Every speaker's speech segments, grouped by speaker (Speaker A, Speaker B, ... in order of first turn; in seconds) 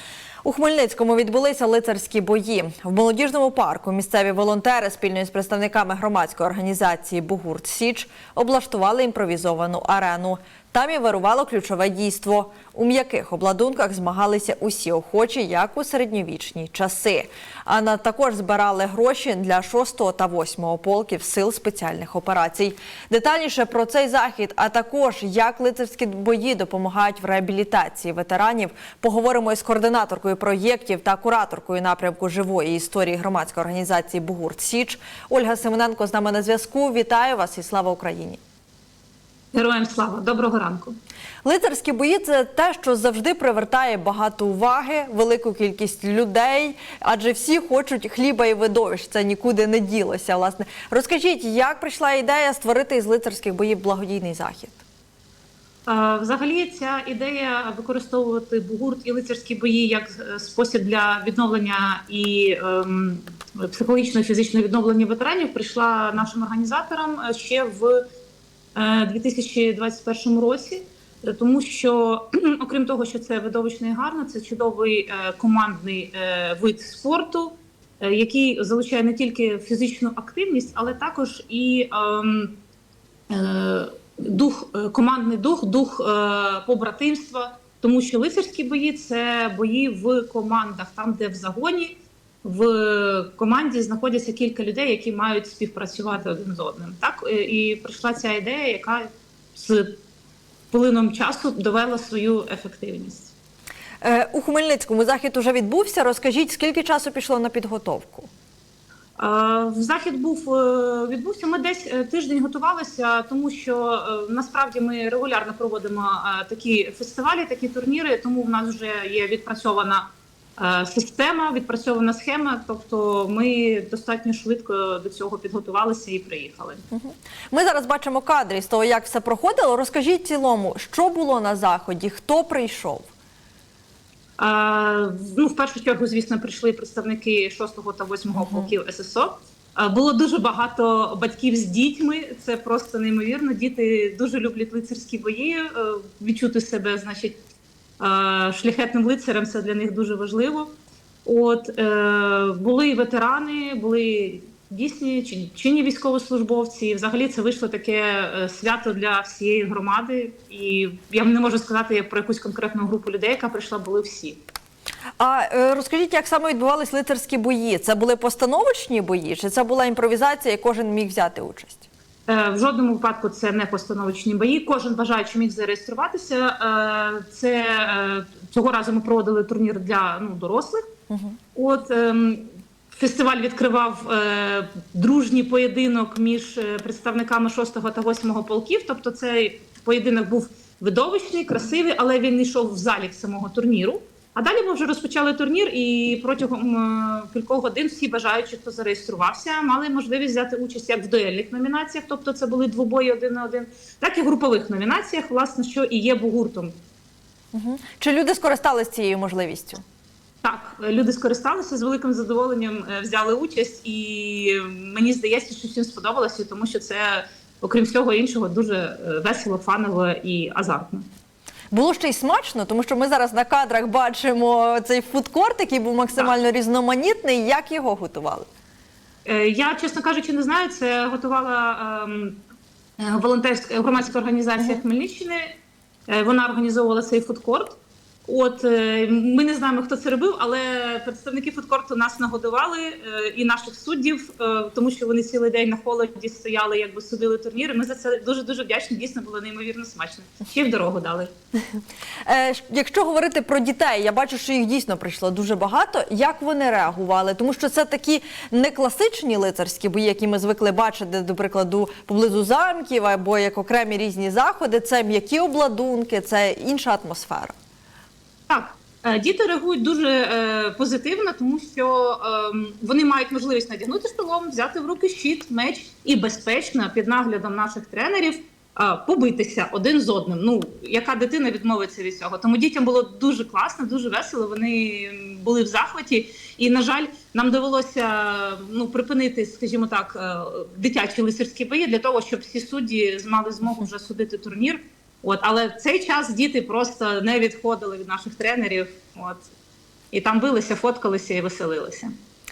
Speaker A: 0.4-38.4, 41.4-54.8, 104.0-108.3, 126.9-133.1, 138.4-138.7, 165.2-171.9, 181.1-181.4, 207.5-209.8, 221.7-228.5, 252.2-267.5
Speaker B: 39.5-41.0, 55.9-68.0, 68.8-82.6, 83.3-100.0, 100.7-103.3, 109.2-126.8, 134.4-147.4, 148.0-150.7, 151.2-164.4, 172.3-180.8, 181.6-206.7, 210.4-221.1, 229.2-232.4, 233.0-235.5, 236.1-251.3, 268.5-299.5, 300.1-302.1